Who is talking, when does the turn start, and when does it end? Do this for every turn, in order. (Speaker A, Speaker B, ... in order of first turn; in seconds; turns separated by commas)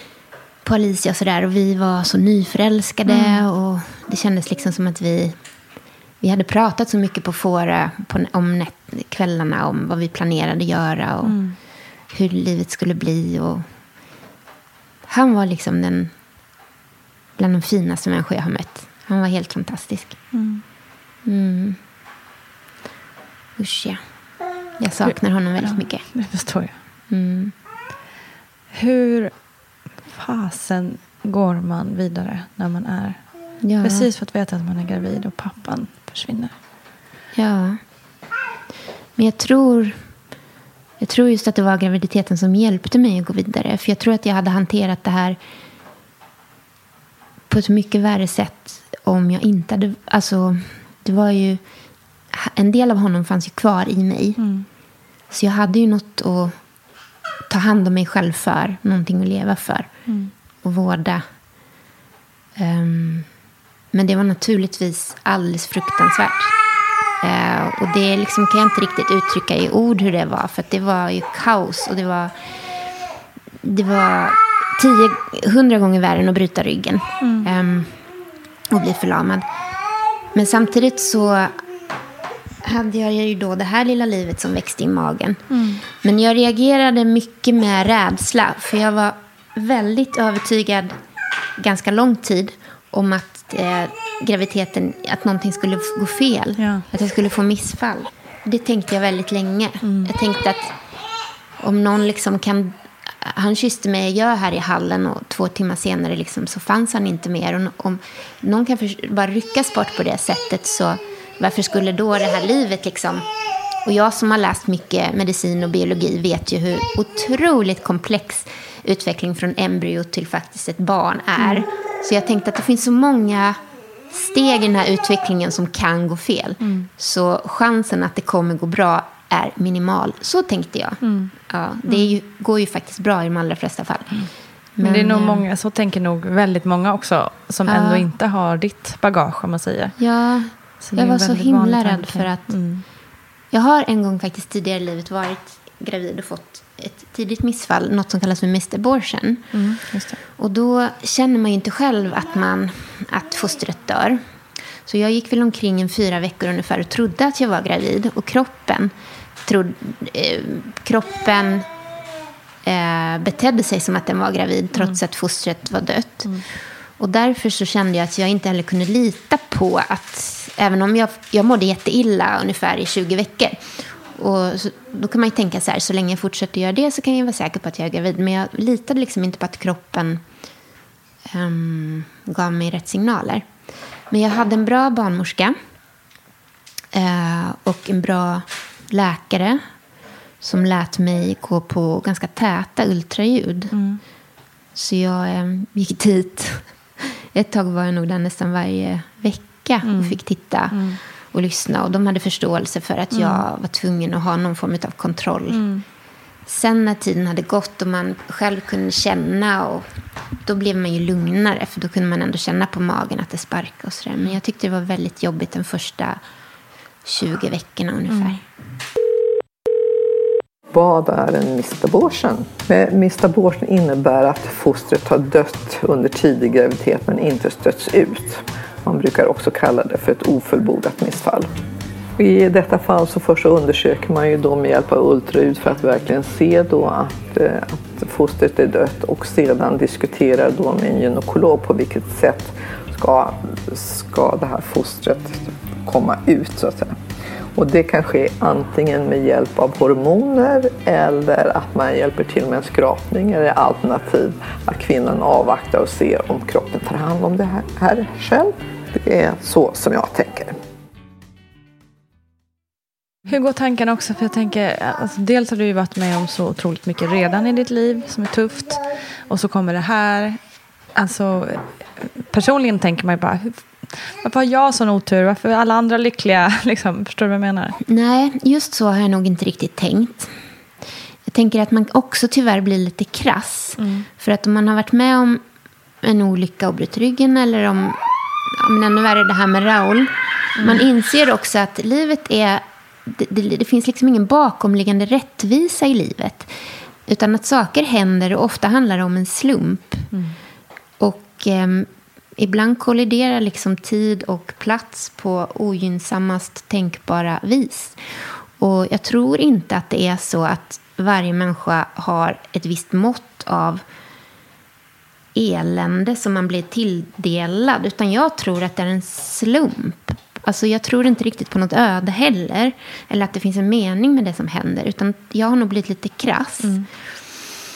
Speaker A: 0.6-5.4, Speaker B: 3.1-3.5, Speaker A: 6.2-11.4, Speaker B: 11.2-11.6, Speaker A: 12.1-13.7, Speaker A: 15.1-16.1, Speaker A: 17.4-20.2, Speaker B: 20.3-20.6, Speaker A: 21.2-21.8, Speaker A: 23.6-24.0, Speaker A: 24.8-26.1, Speaker B: 25.0-26.8, Speaker A: 27.1-27.5, Speaker B: 28.7-29.4, Speaker B: 30.1-36.5, Speaker A: 33.6-34.1, Speaker A: 37.3-37.8, Speaker A: 39.2-40.0, Speaker A: 41.0-45.4, Speaker A: 47.5-51.6, Speaker A: 52.3-54.4, Speaker B: 54.4-54.7, Speaker A: 55.3-56.6, Speaker A: 57.5-60.0, Speaker B: 60.1-60.3, Speaker A: 60.6-61.2, Speaker A: 62.6-63.3, Speaker A: 63.9-66.5, Speaker A: 67.2-72.4, Speaker A: 73.6-78.0, Speaker B: 77.2-77.5, Speaker A: 78.7-79.5, Speaker A: 80.3-81.6, Speaker A: 82.6-91.0, Speaker B: 85.5-85.8, Speaker A: 91.6-100.8, Speaker B: 96.6-96.8, Speaker B: 99.8-100.1, Speaker A: 101.6-113.3, Speaker A: 113.8-123.6, Speaker B: 121.4-121.7, Speaker A: 124.1-135.4, Speaker B: 126.6-126.9, Speaker B: 131.0-131.3, Speaker B: 131.9-132.2, Speaker B: 134.8-140.0, Speaker A: 137.7-138.1, Speaker A: 140.0-142.6, Speaker B: 140.8-142.8, Speaker A: 143.5-149.8, Speaker B: 149.5-150.2, Speaker A: 150.3-154.2, Speaker A: 154.8-158.9, Speaker A: 159.4-161.7, Speaker A: 162.6-166.4, Speaker A: 167.0-180.2, Speaker A: 181.3-183.5, Speaker A: 184.1-185.6, Speaker A: 186.9-189.6, Speaker A: 190.4-193.8, Speaker B: 193.7-194.0, Speaker A: 194.8-205.7, Speaker B: 199.8-200.2, Speaker B: 200.7-201.0, Speaker B: 203.1-203.4, Speaker B: 205.5-205.8, Speaker A: 206.5-216.2, Speaker A: 217.1-218.4, Speaker B: 218.1-218.4, Speaker C: 220.7-231.5, Speaker C: 232.2-247.0, Speaker C: 247.6-260.6, Speaker B: 263.3-270.4, Speaker B: 270.9-277.8, Speaker A: 277.9-280.4, Speaker A: 281.3-285.4, Speaker B: 283.8-284.1, Speaker A: 286.0-296.5, Speaker B: 290.6-290.9, Speaker A: 297.1-300.1, Speaker A: 301.0-313.8, Speaker A: 315.3-326.9